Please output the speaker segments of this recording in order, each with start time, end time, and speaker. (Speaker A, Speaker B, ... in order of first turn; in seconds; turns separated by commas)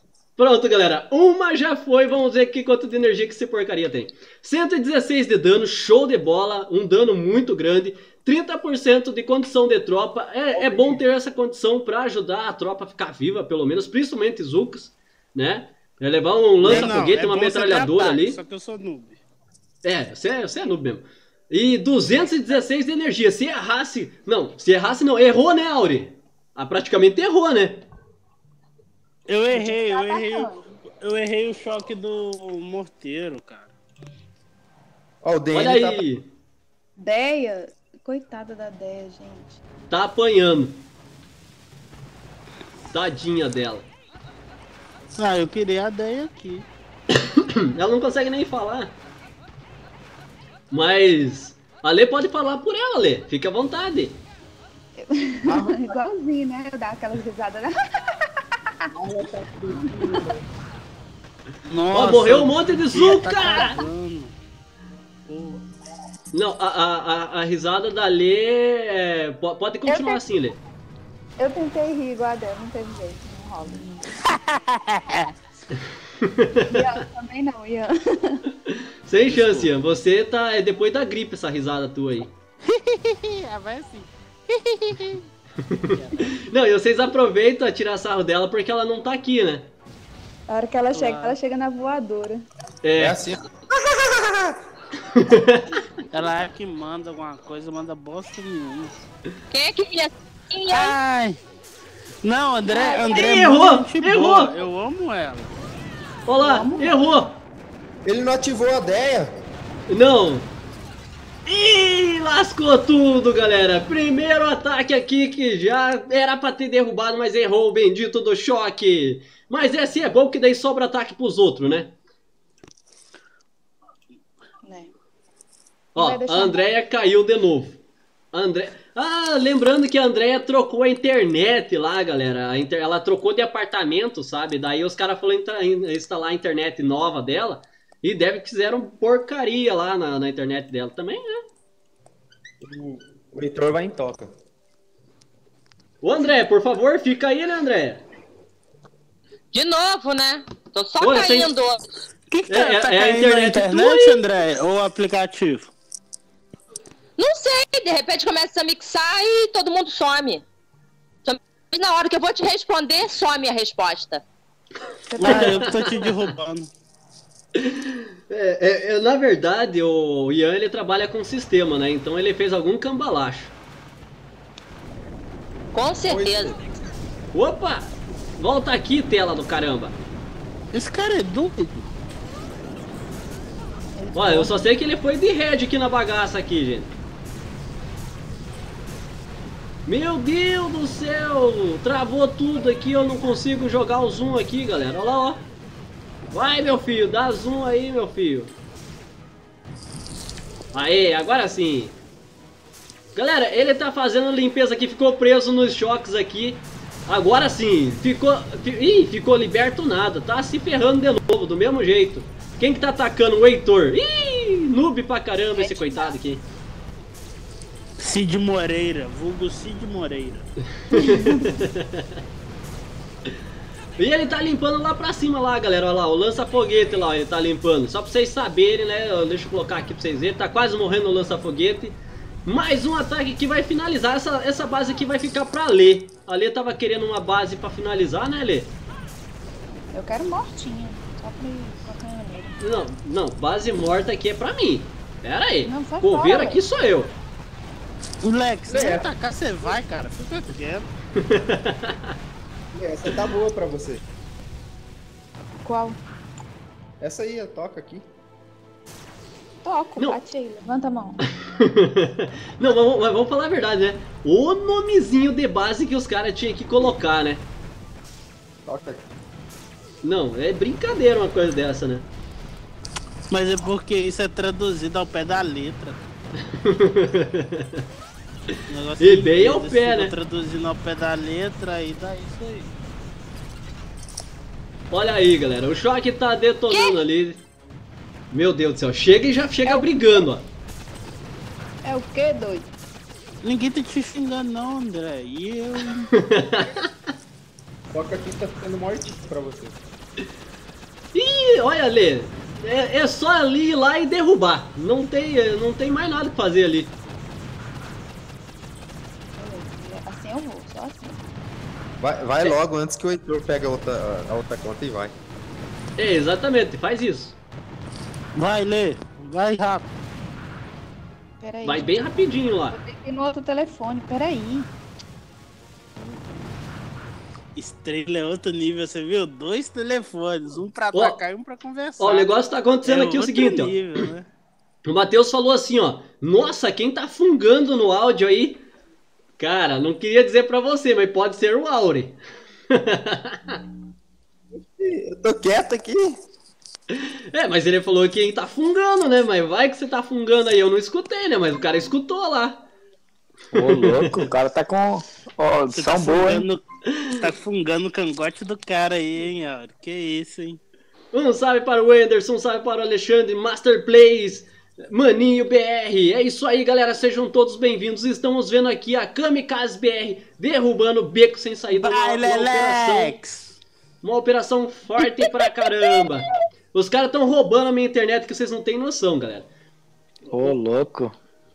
Speaker A: 0.4-18.4, Speaker B: 10.5-11.0, Speaker C: 16.6-19.2, Speaker A: 19.8-27.8, Speaker C: 29.3-30.5, Speaker D: 29.5-30.6, Speaker C: 31.0-33.7, Speaker B: 35.2-36.0, Speaker A: 35.5-36.3, Speaker D: 37.0-39.6, Speaker A: 39.9-40.8, Speaker A: 42.9-43.9, Speaker C: 45.1-46.6, Speaker A: 47.4-48.9, Speaker A: 50.7-54.2, Speaker D: 55.0-57.7, Speaker B: 55.5-55.9, Speaker B: 58.9-60.4, Speaker D: 59.7-60.2, Speaker C: 61.7-64.3, Speaker A: 61.9-63.8, Speaker C: 65.3-65.6, Speaker A: 66.3-70.6, Speaker D: 69.8-70.2, Speaker D: 71.4-74.1, Speaker C: 74.2-75.3, Speaker A: 76.2-76.8, Speaker D: 76.7-78.5, Speaker A: 79.0-82.3, Speaker C: 79.3-79.7, Speaker C: 82.7-85.2, Speaker A: 85.7-89.7, Speaker C: 85.8-86.2, Speaker D: 90.5-92.5, Speaker C: 90.9-91.3, Speaker A: 92.8-93.2, Speaker B: 93.0-93.4, Speaker B: 94.1-94.5, Speaker A: 95.2-95.7, Speaker C: 96.1-98.9, Speaker E: 99.5-101.0, Speaker C: 100.7-101.4, Speaker C: 102.2-105.5, Speaker D: 102.7-103.2, Speaker A: 103.1-104.5, Speaker A: 106.3-107.3, Speaker D: 106.4-107.1, Speaker B: 108.0-109.3, Speaker A: 109.9-110.5, Speaker A: 111.5-121.9, Speaker D: 124.6-124.9, Speaker A: 125.9-127.8, Speaker D: 126.0-126.7, Speaker A: 128.3-141.4, Speaker B: 142.6-144.3, Speaker A: 146.0-148.0, Speaker E: 149.5-151.8, Speaker A: 151.0-151.5, Speaker C: 152.3-155.7, Speaker A: 152.5-154.2, Speaker E: 157.2-160.4, Speaker E: 161.2-164.2, Speaker D: 165.1-165.9, Speaker C: 165.2-166.7, Speaker A: 165.3-165.9, Speaker A: 167.6-173.5, Speaker E: 175.7-176.6, Speaker B: 176.1-176.6, Speaker A: 177.3-179.9, Speaker C: 180.7-181.8, Speaker D: 183.9-184.6, Speaker A: 184.1-186.9, Speaker A: 189.8-195.4, Speaker A: 196.3-198.5, Speaker A: 200.7-201.9, Speaker A: 203.1-216.5, Speaker D: 215.5-216.1, Speaker C: 218.0-220.5, Speaker D: 220.9-221.6, Speaker A: 220.9-222.0, Speaker A: 224.0-238.7, Speaker D: 239.9-242.5, Speaker A: 242.6-247.1, Speaker D: 245.6-246.6, Speaker C: 248.2-250.9, Speaker B: 248.7-249.1, Speaker A: 251.2-252.0, Speaker B: 252.7-254.0, Speaker D: 255.6-256.0, Speaker B: 257.0-258.1, Speaker D: 259.6-261.2, Speaker A: 261.4-267.4, Speaker B: 268.6-269.0, Speaker A: 270.0-272.1, Speaker C: 273.3-276.0, Speaker A: 276.6-277.8, Speaker C: 278.7-282.7, Speaker A: 279.0-280.1, Speaker A: 284.9-287.4, Speaker E: 286.7-287.0, Speaker A: 288.3-290.5, Speaker D: 289.6-290.2, Speaker D: 291.8-292.7, Speaker C: 293.4-296.1, Speaker A: 296.1-296.8, Speaker B: 297.9-299.8, Speaker A: 301.1-306.9, Speaker D: 309.4-311.2, Speaker B: 312.0-315.1, Speaker A: 316.0-317.4, Speaker C: 318.3-319.9, Speaker D: 321.4-324.7, Speaker A: 321.6-322.8, Speaker C: 327.5-332.3, Speaker A: 330.9-331.2, Speaker A: 332.0-334.0, Speaker C: 332.8-334.3, Speaker A: 334.8-338.6, Speaker A: 339.4-342.1, Speaker A: 342.7-343.6, Speaker B: 344.8-346.2, Speaker A: 347.3-352.7, Speaker F: 353.5-356.5, Speaker A: 353.6-354.1, Speaker C: 355.7-360.6, Speaker A: 361.1-373.2, Speaker C: 371.7-373.6, Speaker A: 374.0-379.5, Speaker F: 380.3-381.1